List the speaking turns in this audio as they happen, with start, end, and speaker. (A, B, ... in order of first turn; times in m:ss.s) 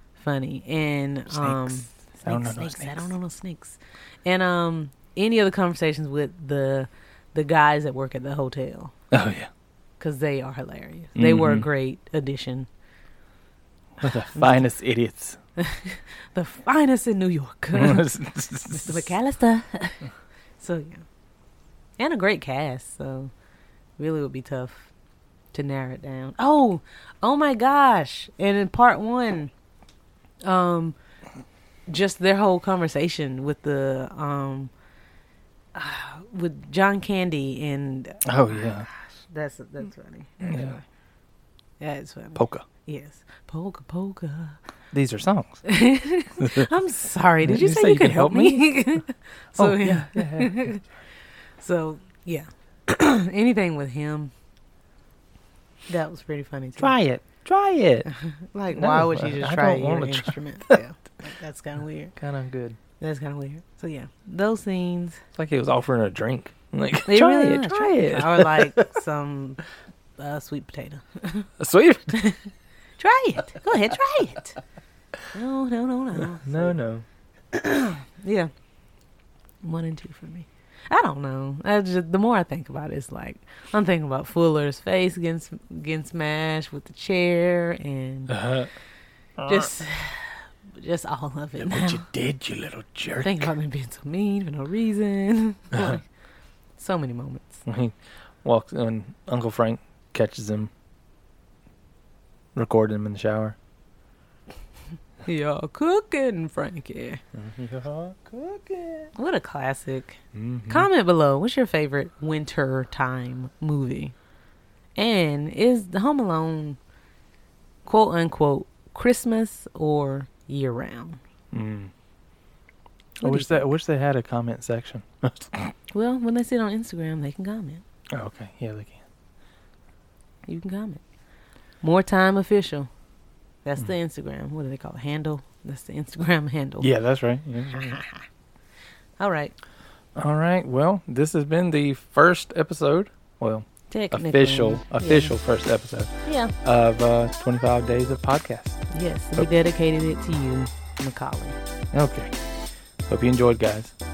0:00.2-0:08.9 A
0:01.3-0:03.1 B
0:09.1-0:09.5 B
0:10.0-0:12.7 A
0:11.2-0:11.7 B
0:14.0-0:15.4 B
0:14.4-0:14.7 A
0:15.6-0:18.2 A
0:17.7-0:19.1 B
0:18.7-0:21.0 A
0:22.0-0:23.3 A
0:24.0-0:24.9 A
0:25.5-0:29.5 A
0:30.4-0:31.0 A
0:31.9-0:34.7 A
0:35.7-0:40.8 A
0:38.2-0:38.9 B
0:40.4-0:40.8 B
0:41.8-0:44.6 A
0:42.4-0:42.7 B
0:44.9-0:45.6 B
0:45.6-0:50.8 A
0:46.4-0:46.7 B
0:47.4-0:49.0 B
0:49.6-0:50.9 B
0:51.6-0:54.3 A
0:55.9-0:56.9 A
0:56.8-0:58.1 B
0:58.1-1:02.2 A
0:58.7-1:00.8 B
1:02.2-1:02.8 B
1:03.0-1:05.2 A
1:05.4-1:08.9 B
1:07.1-1:09.6 A
1:10.2-1:11.5 A
1:11.6-1:12.2 B
1:12.1-1:14.6 A
1:15.3-1:16.8 A
1:16.2-1:17.0 B
1:17.5-1:18.5 A
1:19.6-1:28.4 A
1:28.3-1:28.7 B
1:29.4-1:29.7 B
1:29.5-1:32.1 A
1:31.6-1:33.5 B
1:33.2-1:36.1 A
1:36.8-1:37.6 A
1:37.7-1:40.7 B
1:42.6-1:43.6 B
1:45.2-1:47.2 A
1:47.3-1:49.1 B
1:49.2-1:54.1 A
1:50.3-1:50.9 B
1:55.0-1:56.8 A
1:57.8-2:01.2 A
2:01.5-2:01.9 B
2:03.2-2:03.7 A
2:03.2-2:05.7 B
2:05.9-2:07.8 A
2:08.2-2:09.0 B
2:10.5-2:11.0 A
2:11.8-2:12.9 A
2:13.6-2:16.9 A
2:16.8-2:18.0 B
2:17.7-2:18.2 A
2:19.2-2:19.5 A
2:20.2-2:28.8 B
2:23.9-2:25.3 A
2:26.2-2:26.5 A
2:28.9-2:31.6 A
2:31.9-2:32.3 B
2:33.0-2:34.0 B